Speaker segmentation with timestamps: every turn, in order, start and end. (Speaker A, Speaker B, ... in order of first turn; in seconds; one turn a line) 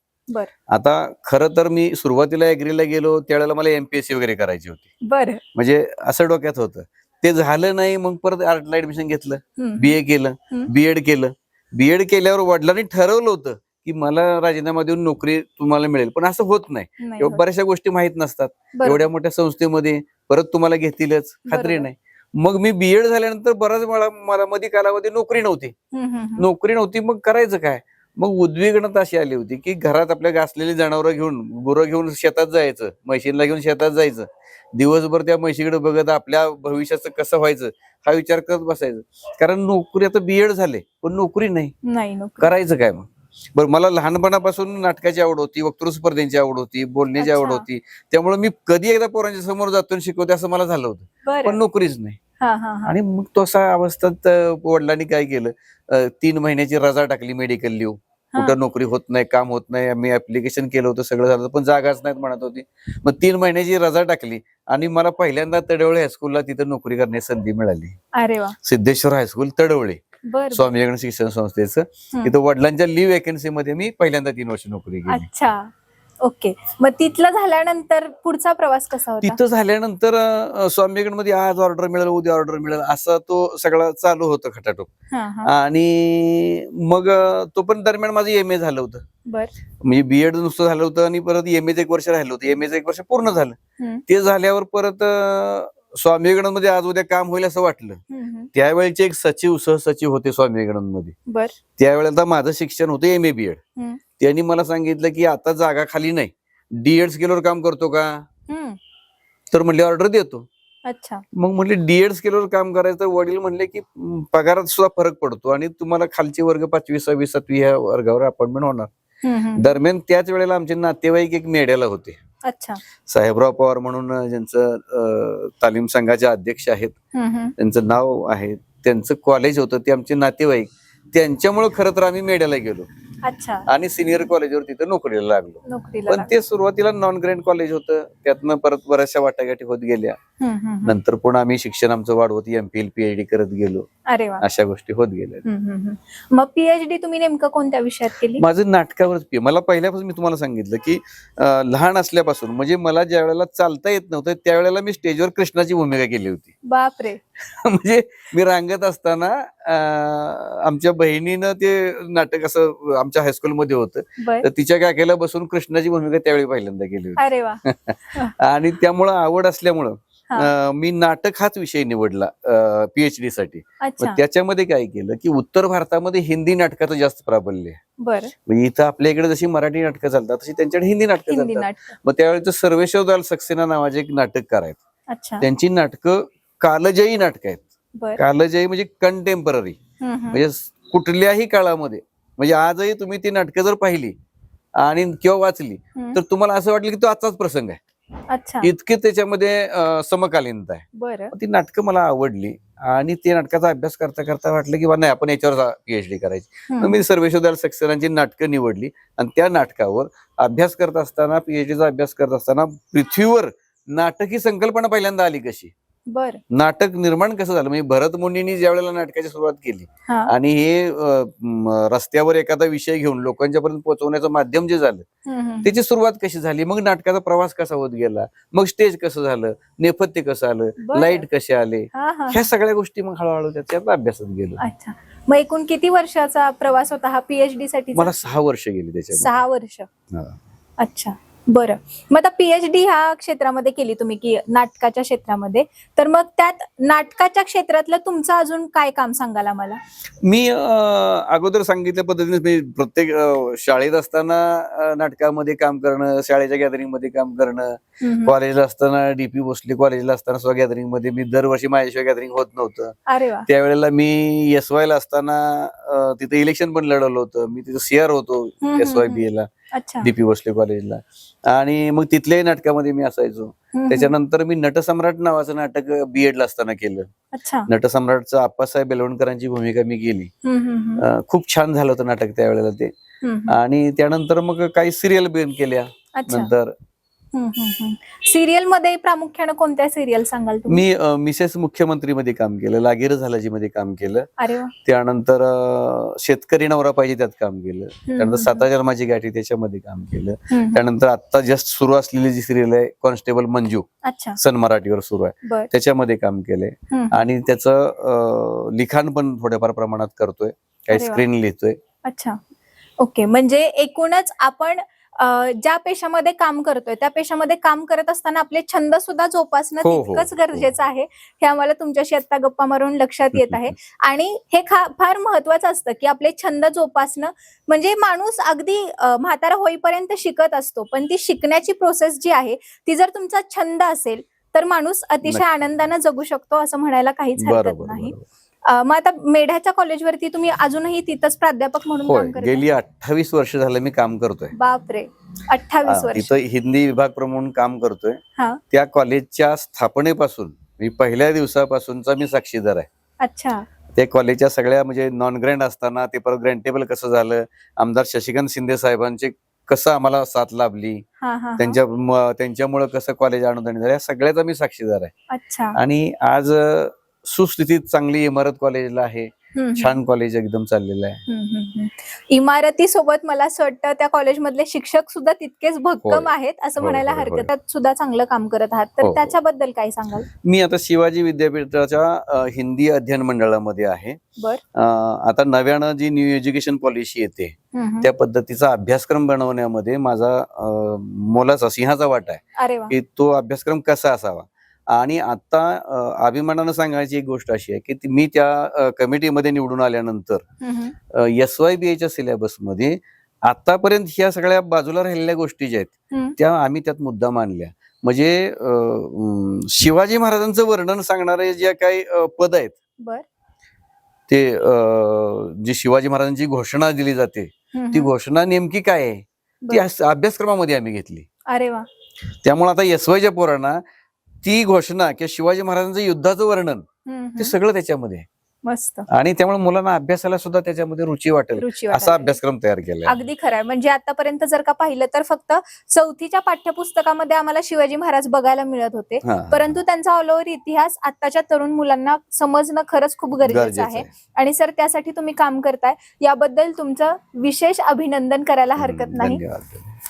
Speaker A: 0.7-4.9
Speaker B: 5.0-5.4
Speaker A: 5.5-25.7
Speaker B: 9.6-10.0
Speaker B: 17.0-17.4
Speaker B: 18.8-19.0
Speaker B: 21.5-21.9
Speaker B: 25.9-26.5
Speaker A: 26.4-41.7
Speaker B: 41.8-42.5
Speaker A: 42.4-52.2
Speaker B: 47.2-47.6
Speaker B: 51.2-51.6
Speaker B: 52.4-52.9
Speaker A: 52.9-68.0
Speaker B: 68.1-68.5
Speaker A: 68.6-70.0
Speaker B: 70.3-70.7
Speaker A: 70.5-75.3
Speaker B: 75.1-75.7
Speaker B: 76.2-79.4
Speaker A: 79.2-84.9
Speaker B: 85.1-85.5
Speaker A: 85.4-89.0
Speaker B: 89.2-89.5
Speaker A: 89.8-93.6
Speaker A: 94.1-98.0
Speaker B: 98.1-98.5
Speaker A: 98.5-101.1
Speaker B: 101.3-101.5
Speaker A: 101.8-103.6
Speaker A: 104.2-108.2
Speaker B: 108.5-108.8
Speaker A: 109.5-110.5
Speaker B: 110.9-111.2
Speaker A: 111.3-118.9
Speaker B: 119.2-119.7
Speaker A: 119.6-122.2
Speaker B: 122.4-122.8
Speaker A: 123.1-126.9
Speaker B: 127.1-127.5
Speaker A: 127.6-132.9
Speaker B: 133.2-133.7
Speaker A: 133.7-140.2
Speaker B: 135.7-136.3
Speaker B: 140.4-140.9
Speaker A: 140.8-143.9
Speaker B: 144.1-144.4
Speaker A: 144.4-145.4
Speaker B: 145.4-148.4
Speaker A: 148.4-156.5
Speaker B: 156.7-157.2
Speaker A: 157.4-177.8
Speaker B: 164.2-164.5
Speaker B: 167.2-167.6
Speaker B: 173.8-174.2
Speaker B: 178.0-178.3
Speaker A: 178.4-184.8
Speaker B: 181.3-181.9
Speaker B: 185.1-185.4
Speaker A: 185.4-187.6
Speaker A: 188.2-189.8
Speaker B: 190.0-190.4
Speaker A: 190.3-194.1
Speaker A: 194.8-197.8
Speaker B: 198.3-198.7
Speaker A: 198.6-215.7
Speaker B: 200.9-201.3
Speaker B: 206.7-207.0
Speaker B: 216.1-216.4
Speaker A: 216.5-225.1
Speaker B: 225.2-225.7
Speaker A: 225.6-234.6
Speaker B: 230.8-231.2
Speaker B: 231.9-232.5
Speaker B: 234.6-238.2
Speaker A: 237.9-239.3
Speaker B: 239.1-239.9
Speaker A: 240.1-240.4
Speaker B: 240.8-249.8
Speaker A: 250.2-262.9
Speaker B: 258.0-258.3
Speaker B: 263.1-263.5
Speaker A: 263.5-269.5
Speaker B: 268.6-270.1
Speaker A: 270.0-277.1
Speaker B: 273.7-274.1
Speaker B: 277.3-277.7
Speaker A: 277.7-280.3
Speaker B: 280.4-281.1
Speaker A: 281.0-282.9
Speaker B: 283.2-283.6
Speaker A: 283.5-286.7
Speaker B: 286.2-286.5
Speaker B: 287.3-290.8
Speaker A: 290.7-294.3
Speaker B: 294.4-294.7
Speaker A: 294.8-311.8
Speaker B: 298.1-298.6
Speaker B: 300.5-300.8
Speaker B: 304.0-304.4
Speaker B: 306.9-307.2
Speaker B: 310.9-311.2
Speaker B: 312.0-312.4
Speaker B: 313.0-338.1
Speaker A: 319.8-320.6
Speaker A: 323.3-323.6
Speaker A: 337.4-338.2
Speaker B: 338.6-342.7
Speaker A: 342.1-344.5
Speaker B: 344.5-346.3
Speaker A: 345.9-348.2
Speaker A: 348.7-352.9
Speaker B: 353.2-353.6
Speaker A: 353.9-361.0
Speaker B: 361.2-361.8
Speaker A: 361.6-365.1
Speaker B: 365.3-365.8
Speaker A: 365.7-371.2
Speaker B: 369.5-370.0
Speaker B: 371.3-380.3
Speaker A: 376.0-377.5
Speaker A: 379.0-379.3
Speaker A: 380.4-384.2
Speaker B: 384.4-384.6
Speaker A: 384.7-400.4
Speaker B: 387.7-388.1
Speaker B: 392.6-392.9
Speaker B: 400.6-400.9
Speaker A: 401.1-412.7
Speaker B: 406.1-406.4
Speaker A: 414.3-421.3
Speaker B: 417.7-418.1
Speaker B: 421.5-421.9
Speaker A: 422.4-423.8
Speaker A: 424.4-426.8
Speaker B: 427.1-427.5
Speaker A: 427.4-428.3
Speaker B: 428.6-429.1
Speaker A: 429.1-433.2
Speaker B: 431.6-432.4
Speaker B: 433.1-449.4
Speaker A: 439.2-439.7
Speaker A: 443.4-444.1
Speaker A: 448.8-449.9